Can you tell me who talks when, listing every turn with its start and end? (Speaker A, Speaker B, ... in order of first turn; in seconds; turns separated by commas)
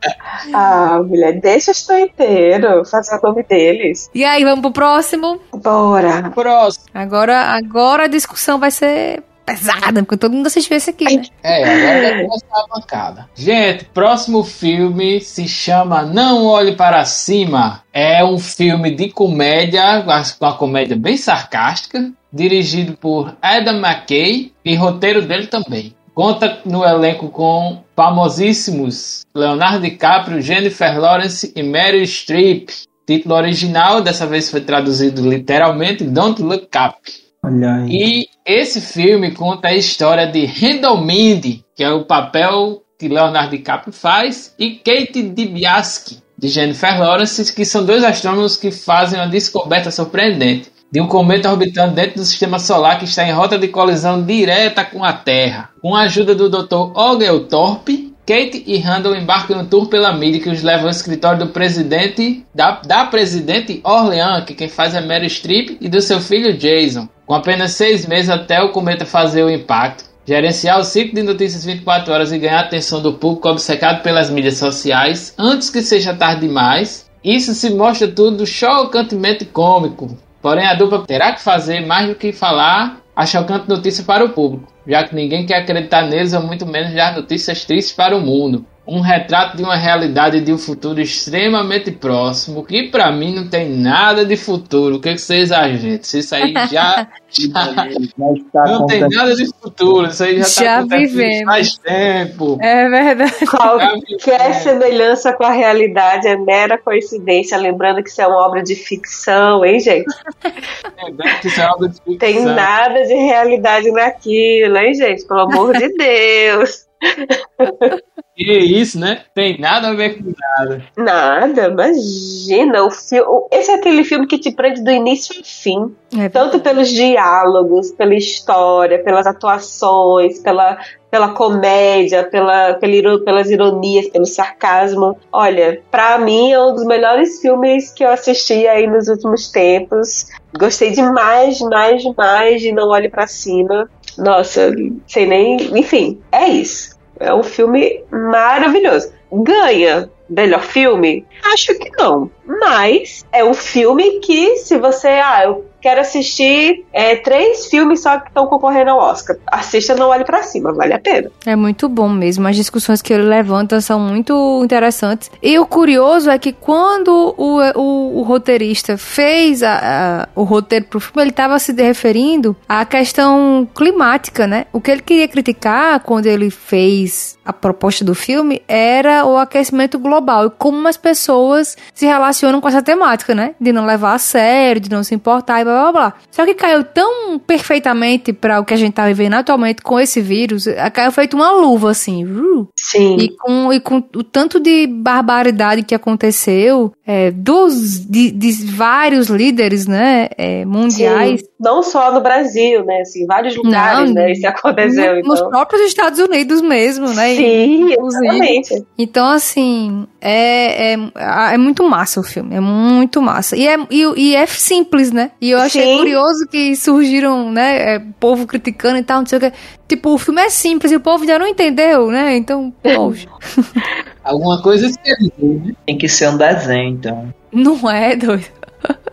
Speaker A: 0.4-4.1, Speaker B: 4.1-5.4, Speaker A: 5.5-6.4, Speaker C: 6.4-6.8, Speaker B: 7.0-11.3, Speaker A: 11.1-12.2, Speaker C: 11.4-37.2, Speaker D: 37.4-38.0, Speaker C: 37.9-97.9, Speaker B: 96.4-97.1, Speaker D: 97.4-99.4, Speaker C: 98.6-102.6, Speaker B: 100.4-101.7, Speaker B: 102.6-103.5, Speaker A: 103.5-110.1, Speaker C: 103.8-104.7, Speaker C: 111.0-112.7, Speaker A: 112.2-117.9, Speaker B: 115.5-115.8, Speaker C: 118.4-120.8, Speaker A: 121.0-161.3, Speaker B: 126.1-126.8, Speaker B: 161.5-201.4, Speaker A: 192.8-193.3, Speaker A: 200.9-205.5, Speaker B: 203.6-223.8, Speaker A: 207.1-208.8, Speaker A: 215.6-216.2, Speaker A: 222.9-223.2, Speaker C: 224.2-225.8, Speaker D: 225.9-227.3, Speaker B: 227.5-228.9